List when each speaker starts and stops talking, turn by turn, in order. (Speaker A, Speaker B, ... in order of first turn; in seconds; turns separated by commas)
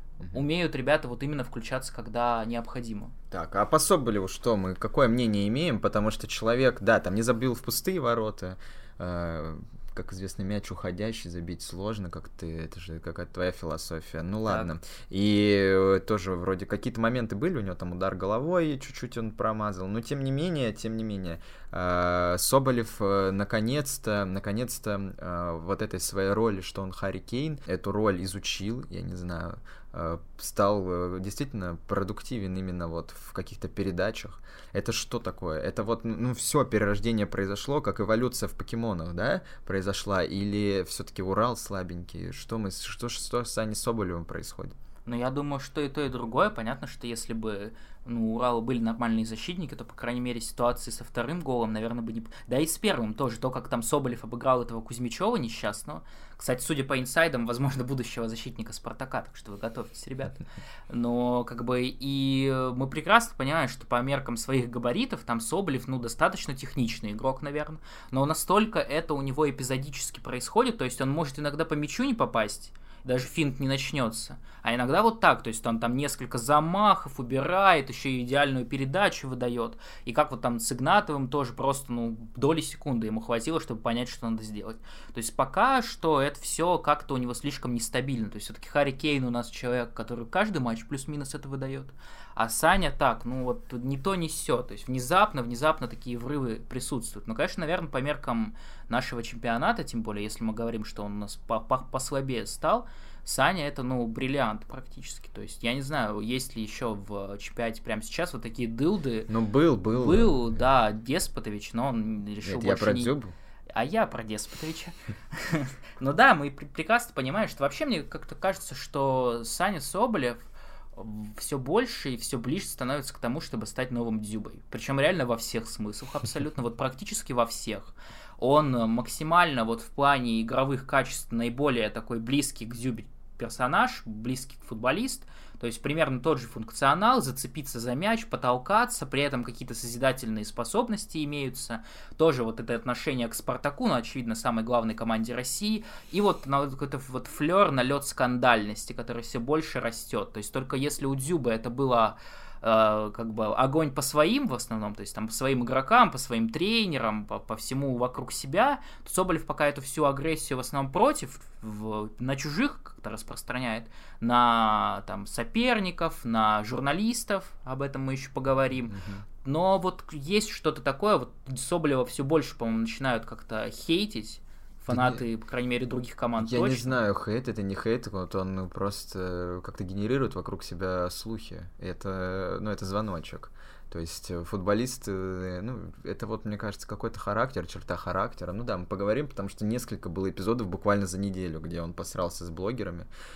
Speaker A: 0.3-3.1, Speaker B: 3.3-44.8, Speaker A: 14.5-14.7, Speaker A: 45.0-109.3, Speaker B: 109.3-110.6, Speaker A: 109.9-113.1, Speaker B: 112.4-113.3, Speaker A: 113.7-120.4, Speaker A: 121.0-177.0, Speaker B: 168.9-169.2, Speaker B: 174.9-175.2, Speaker B: 176.4-193.1